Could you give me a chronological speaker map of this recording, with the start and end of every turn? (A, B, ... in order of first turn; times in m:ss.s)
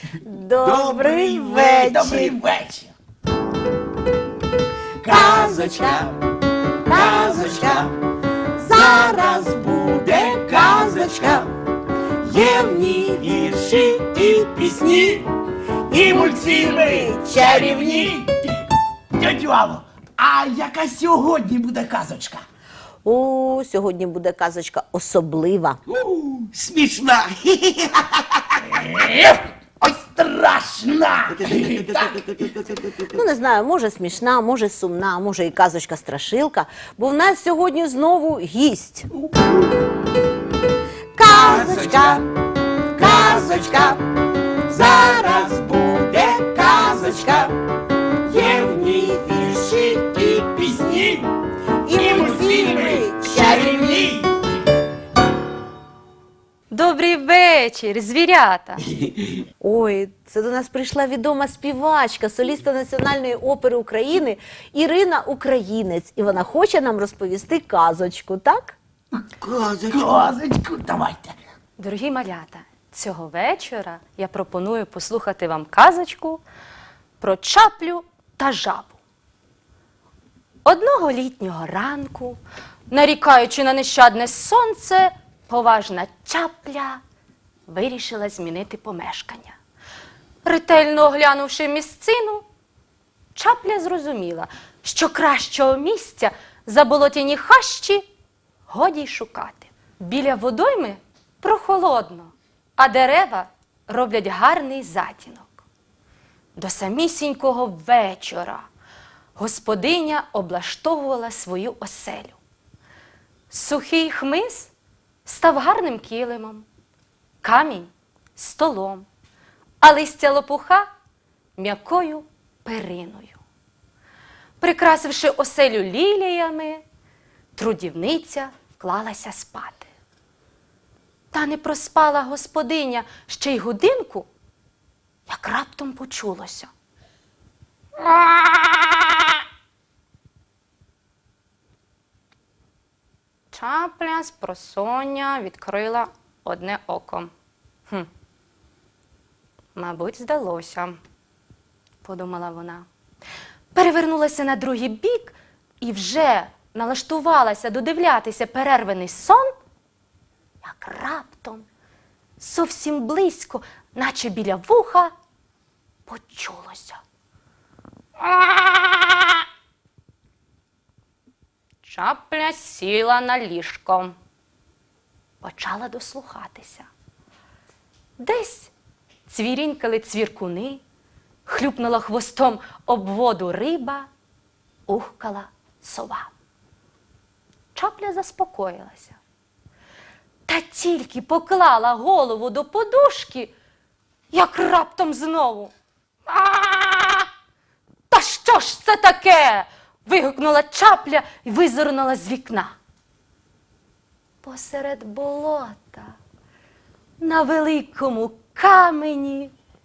0:00.2-0:02.3 A
0:00.6-0:02.2 B
0:01.5-0:02.9 C
0:05.0-0:06.0 A
0:05.0-0:05.5 C
0:05.1-0:06.1 B
0:06.9-0:07.9 A
0:06.9-0:07.9 B
0:08.6-0:11.5 A
0:08.7-0:11.5 B
0:12.2-0:15.0 B
0:12.3-0:13.1 A
0:15.9-0:18.3 C
0:15.9-0:18.2 A
0:19.1-0:22.4 C
0:23.0-0:25.8 A
0:26.0-0:28.6 B
0:28.7-0:32.2 C
0:31.3-0:33.2 B
0:33.1-0:39.1 A
0:41.1-0:42.2 A
0:41.4-0:42.2 B
0:43.0-0:44.0 B
0:43.0-0:44.0 A
0:44.7-0:47.5 B
0:46.6-0:47.4 A
0:48.3-0:50.8 B
0:50.9-0:51.2 C
0:51.8-0:54.0 A
0:51.9-0:54.3 C
0:56.7-0:58.8 D
0:59.0-0:59.3 B
0:59.6-1:08.8 A
1:09.4-1:10.3 B
1:09.9-1:11.3 C
1:11.8-1:16.4 D
1:17.2-1:19.0 D
1:20.6-1:27.0 D
1:27.7-1:29.6 D
1:30.4-1:32.4 D
1:33.3-1:38.0 D
1:38.7-1:45.6 D
1:46.6-1:48.7 D
1:49.4-1:52.4 D
1:53.5-1:54.7 D
1:55.2-1:56.6 D
1:57.4-1:59.1 D
1:59.8-2:00.9 D
2:01.6-2:03.4 D
2:04.6-2:06.8 D
2:07.5-2:09.9 D
2:11.3-2:14.3 D
2:15.3-2:16.7 D
2:18.0-2:19.4 D
2:23.5-2:27.3 D
2:29.7-2:31.0 D
2:32.0-2:32.9 D
2:33.7-2:39.5 D
2:40.6-2:41.6 D
2:42.4-2:45.1 D
2:46.1-2:47.0 D
2:48.2-2:49.4 D
2:51.8-2:54.2 D
2:55.4-2:56.9 D
2:58.2-2:58.7 D
2:59.3-3:00.8 D
3:01.4-3:04.1 D
3:04.9-3:06.3 D
3:07.7-3:09.2 D
3:10.5-3:13.5 D
3:14.3-3:15.7 D
3:16.3-3:17.3 D
3:18.1-3:22.8 D
3:24.4-3:26.1 D
3:27.2-3:29.5 D